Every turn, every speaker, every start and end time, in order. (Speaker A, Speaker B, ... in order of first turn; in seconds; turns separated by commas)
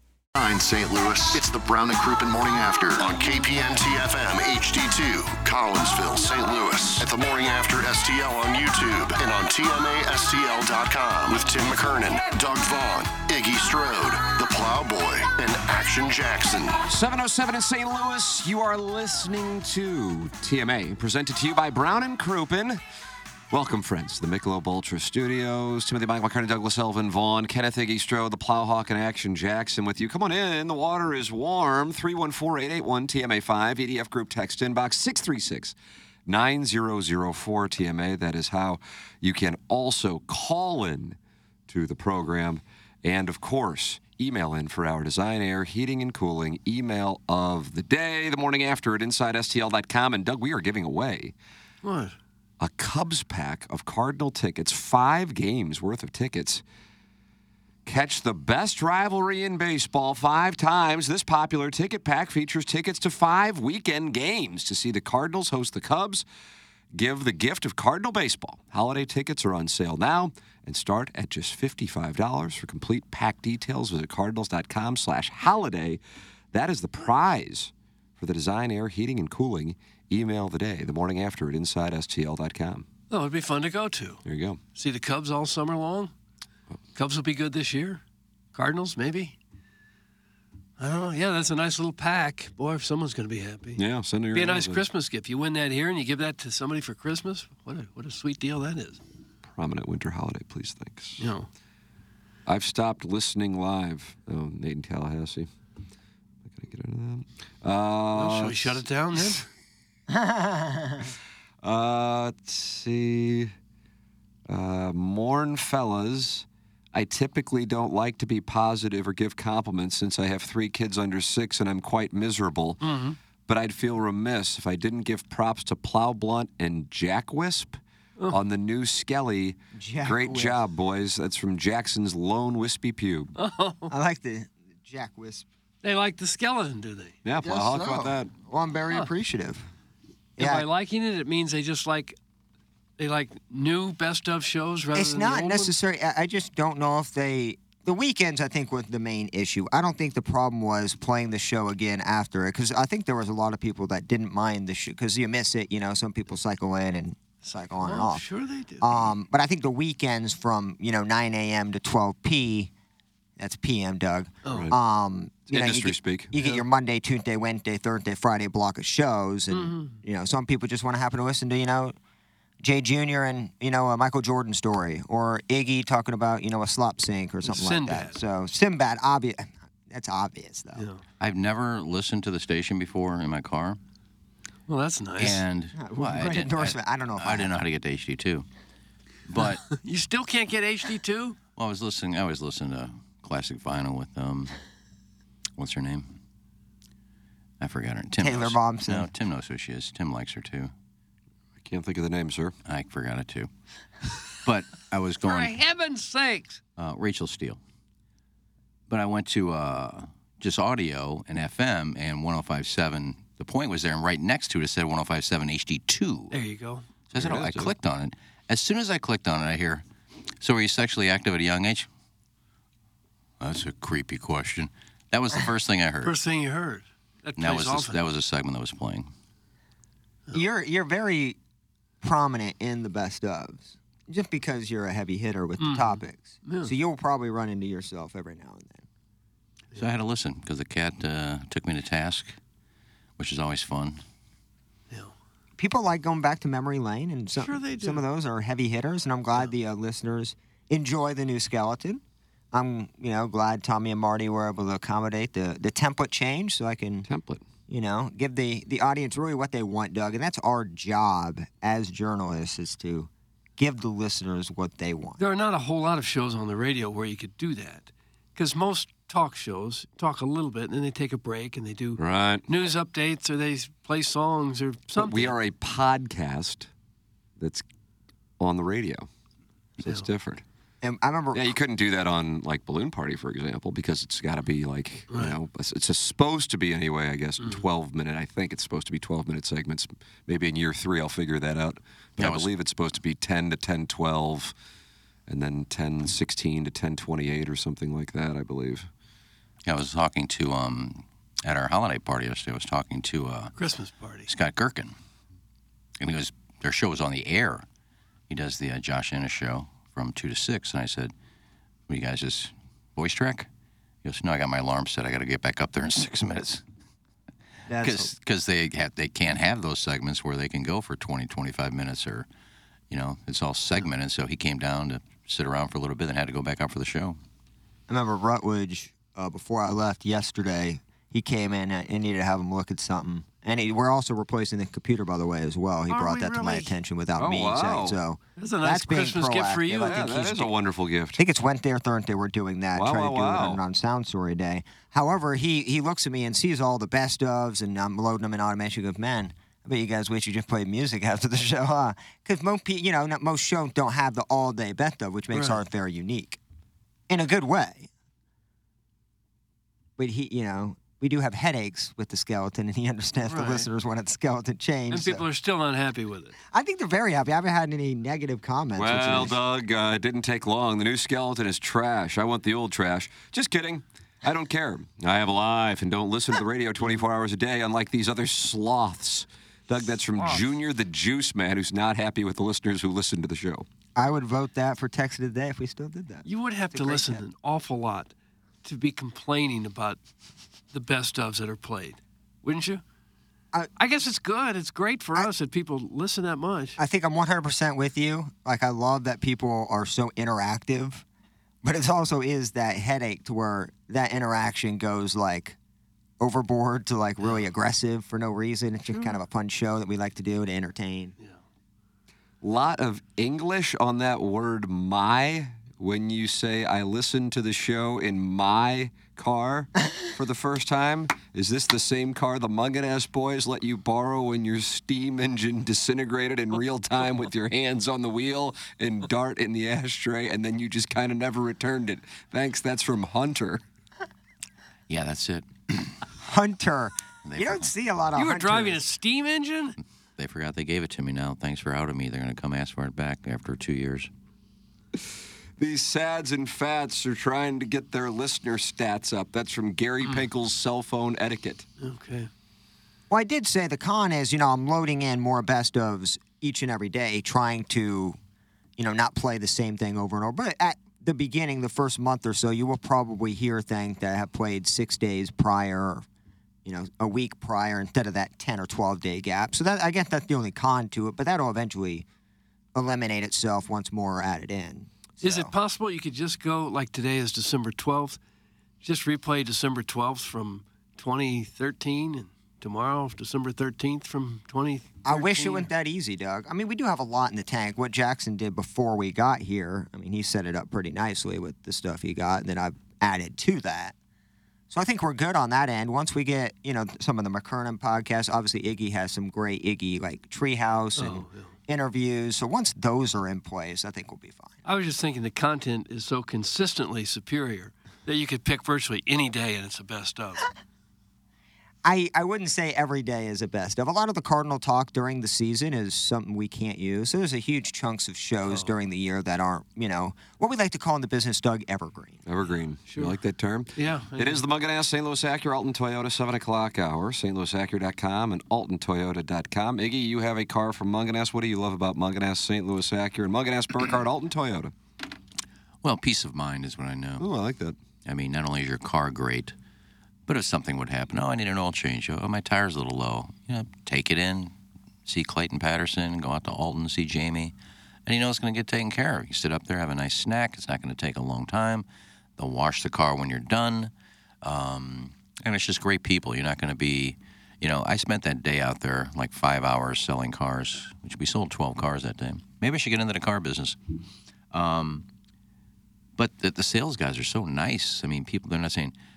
Speaker A: 0.3-16.8, Speaker B: 16.8-22.8, Speaker B: 23.5-35.8, Speaker B: 36.3-41.2, Speaker B: 41.7-51.3, Speaker C: 51.8-52.2, Speaker B: 52.6-56.6, Speaker B: 57.9-66.3, Speaker B: 66.9-76.0, Speaker B: 76.5-82.9, Speaker C: 83.1-84.2, Speaker B: 84.3-84.6, Speaker C: 84.8-86.1, Speaker C: 87.0-88.0, Speaker C: 88.5-89.4, Speaker C: 90.8-93.8, Speaker B: 93.8-94.8, Speaker C: 94.3-99.0, Speaker B: 99.5-101.3, Speaker C: 101.2-101.5, Speaker B: 102.5-105.5, Speaker B: 106.5-109.4, Speaker C: 108.1-109.5, Speaker D: 110.1-111.1, Speaker B: 111.6-113.5, Speaker B: 114.5-122.8, Speaker C: 122.8-123.2, Speaker B: 123.5-133.3, Speaker D: 129.7-130.6, Speaker C: 133.4-133.9, Speaker D: 133.9-135.5, Speaker C: 135.8-137.2, Speaker B: 137.2-138.3, Speaker D: 137.3-139.7, Speaker D: 140.4-140.7, Speaker C: 140.4-142.2, Speaker C: 143.0-145.7, Speaker D: 144.9-158.3, Speaker C: 157.4-159.1, Speaker D: 158.8-162.7, Speaker D: 163.4-172.0, Speaker C: 164.4-164.7, Speaker B: 164.5-164.8, Speaker B: 165.5-166.6, Speaker C: 169.5-170.0, Speaker D: 172.6-180.9, Speaker C: 177.5-178.2, Speaker C: 180.8-181.0, Speaker E: 181.2-183.8, Speaker C: 184.7-185.4, Speaker E: 185.2-188.5, Speaker D: 185.8-187.5, Speaker E: 189.3-189.7, Speaker C: 189.7-191.4, Speaker E: 191.6-194.6, Speaker E: 195.6-196.1, Speaker E: 197.6-200.7, Speaker D: 198.2-199.1, Speaker B: 201.6-202.6, Speaker E: 202.7-203.5, Speaker E: 204.4-205.6, Speaker C: 205.2-206.6, Speaker E: 206.8-207.6, Speaker E: 208.9-216.4, Speaker C: 216.3-216.9, Speaker E: 217.1-219.8, Speaker B: 217.1-217.7, Speaker E: 220.4-221.9, Speaker E: 223.4-226.1, Speaker C: 226.0-228.0, Speaker E: 227.4-229.1, Speaker D: 230.3-231.4, Speaker D: 232.0-238.9, Speaker C: 235.6-236.7, Speaker E: 239.8-242.4, Speaker E: 243.2-244.0, Speaker D: 245.6-252.0, Speaker C: 247.4-248.0, Speaker D: 252.5-257.1, Speaker B: 257.1-257.4, Speaker D: 257.7-265.2, Speaker C: 265.2-275.4, Speaker B: 272.0-272.5, Speaker B: 274.9-276.7, Speaker B: 277.4-277.6, Speaker B: 278.4-279.1, Speaker B: 279.8-280.4, Speaker D: 280.8-281.5, Speaker B: 281.3-294.5, Speaker C: 285.1-285.4, Speaker E: 292.2-292.5, Speaker B: 295.3-298.9, Speaker E: 299.6-303.6, Speaker C: 303.6-304.3, Speaker E: 304.3-304.9, Speaker E: 306.0-307.6, Speaker E: 308.3-311.1, Speaker E: 311.9-313.5, Speaker E: 314.0-316.6, Speaker D: 317.7-318.1, Speaker E: 317.8-322.3, Speaker E: 322.9-327.2, Speaker D: 327.9-340.2, Speaker C: 335.9-336.8, Speaker B: 337.2-338.0, Speaker C: 338.4-340.5, Speaker B: 339.9-341.2, Speaker D: 341.2-356.4, Speaker B: 342.8-343.6, Speaker C: 355.3-355.6, Speaker D: 357.1-357.9, Speaker D: 360.0-365.3, Speaker C: 363.3-363.7, Speaker C: 364.9-366.4, Speaker D: 366.5-369.4, Speaker B: 368.8-383.7, Speaker C: 380.1-380.4, Speaker D: 384.0-387.2, Speaker C: 386.3-388.1, Speaker C: 388.6-390.0, Speaker C: 390.7-392.8, Speaker C: 393.8-396.8, Speaker D: 396.8-401.1, Speaker D: 401.6-405.6, Speaker D: 406.2-411.1, Speaker B: 412.4-433.6, Speaker E: 434.9-436.0, Speaker D: 436.2-438.8, Speaker E: 437.3-437.7, Speaker C: 438.1-439.8, Speaker E: 440.2-444.1, Speaker B: 445.6-451.7, Speaker C: 451.8-452.3, Speaker D: 453.1-458.2, Speaker D: 458.8-466.1, Speaker D: 466.6-472.1, Speaker D: 472.8-475.5, Speaker C: 475.2-478.2, Speaker C: 478.8-485.7, Speaker D: 485.1-493.9, Speaker D: 494.7-504.6, Speaker C: 501.0-501.5, Speaker C: 504.6-510.5, Speaker D: 511.8-522.2, Speaker C: 518.5-518.7, Speaker B: 522.3-534.7, Speaker C: 522.9-523.2, Speaker C: 523.8-524.4, Speaker E: 535.8-537.3, Speaker B: 537.2-537.8, Speaker E: 538.1-539.5, Speaker E: 540.3-544.5, Speaker E: 545.1-547.5, Speaker E: 548.1-551.9, Speaker E: 552.4-553.9, Speaker E: 554.4-563.8, Speaker E: 564.5-565.0, Speaker E: 566.2-568.9